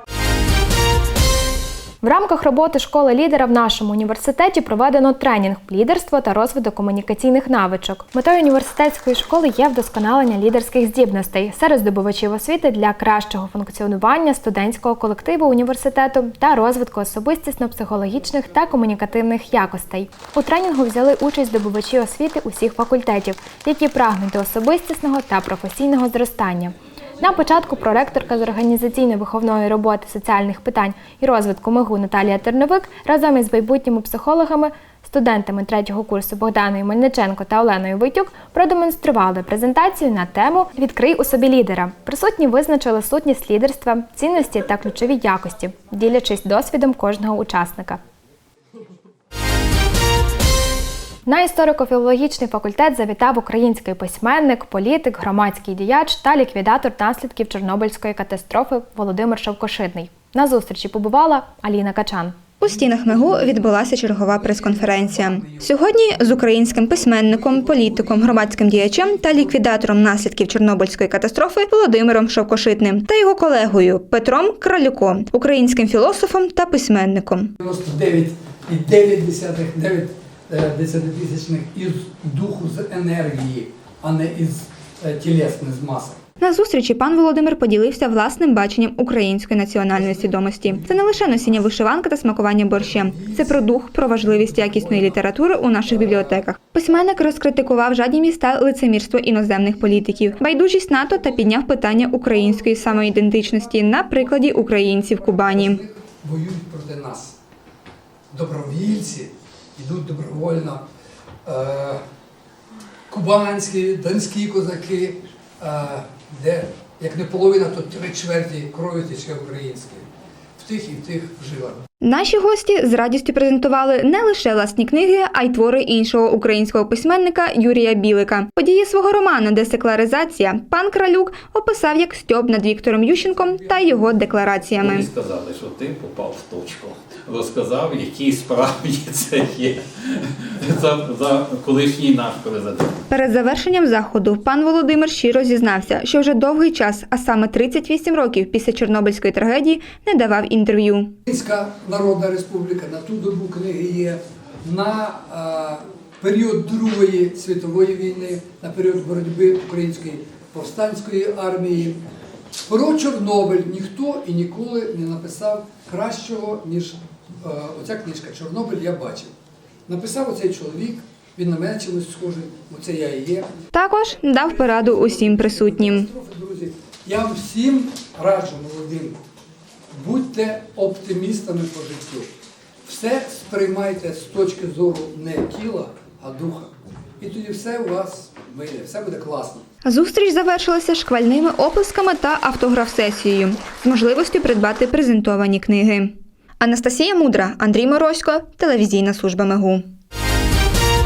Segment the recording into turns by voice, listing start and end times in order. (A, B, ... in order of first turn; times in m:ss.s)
0:02.0-0:48.0 A
0:51.3-1:02.4 A
1:02.6-1:17.5 B
1:02.8-1:09.7 C
1:17.6-1:26.2 C
1:26.4-1:45.8 B
1:29.9-1:31.6 C
1:32.7-1:35.2 C
1:35.7-1:36.4 C
1:42.1-1:43.4 C
1:44.0-1:47.3 C
1:48.3-1:50.8 C
1:51.5-1:52.0 C
1:53.1-2:00.1 C
2:00.6-2:01.8 C
2:02.0-2:15.1 B
2:13.0-2:14.7 C
2:14.8-2:19.8 D
2:20.6-2:22.9 D
2:23.1-2:31.1 B
2:31.3-2:42.0 C
2:42.7-2:49.3 C
2:49.9-2:53.5 C
2:53.7-2:56.1 B
2:54.3-2:59.2 C
2:59.9-3:02.3 C
3:02.9-3:09.6 C
3:09.8-3:19.8 B